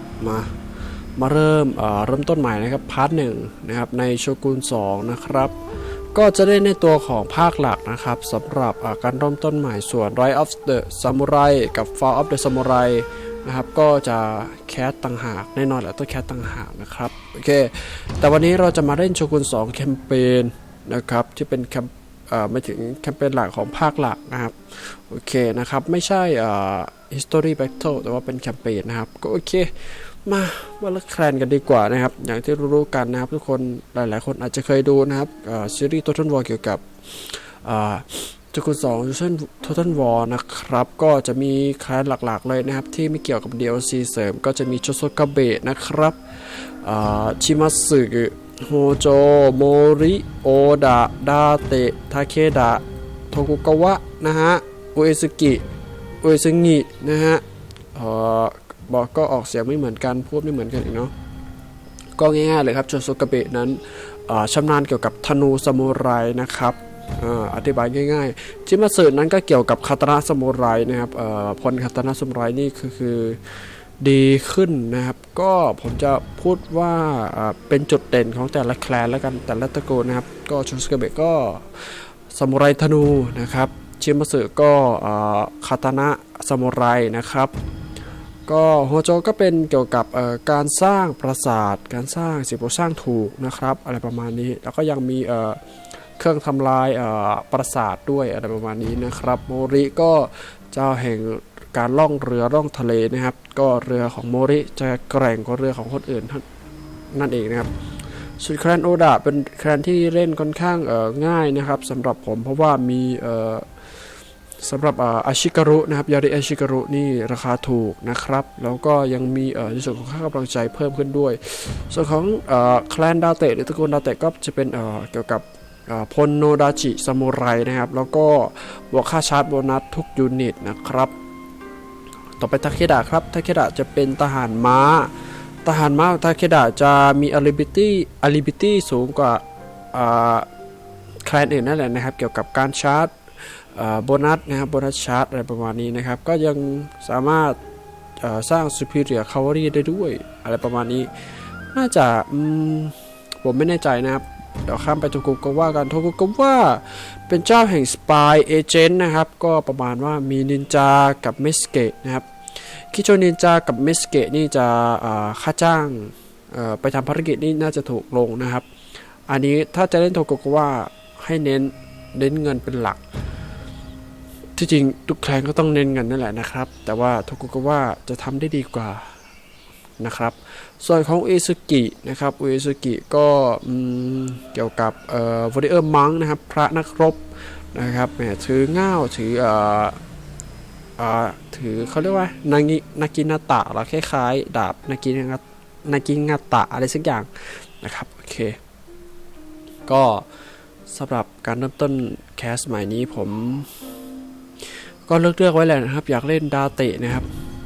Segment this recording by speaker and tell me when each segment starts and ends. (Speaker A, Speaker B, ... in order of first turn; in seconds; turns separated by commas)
Speaker A: 0.2-0.5, Speaker A: 1.2-5.6, Speaker A: 6.1-55.6, Speaker A: 56.2-57.4, Speaker A: 57.9-61.1, Speaker A: 62.2-87.5, Speaker A: 88.5-106.5, Speaker A: 107.1-113.7, Speaker A: 114.6-131.2, Speaker A: 132.4-135.1, Speaker A: 135.6-140.5, Speaker A: 141.2-147.6, Speaker A: 148.2-168.7, Speaker A: 169.3-173.0, Speaker A: 174.6-179.1, Speaker A: 180.0-190.0, Speaker A: 191.0-198.6, Speaker A: 199.9-200.3, Speaker A: 200.9-203.7, Speaker A: 204.6-207.3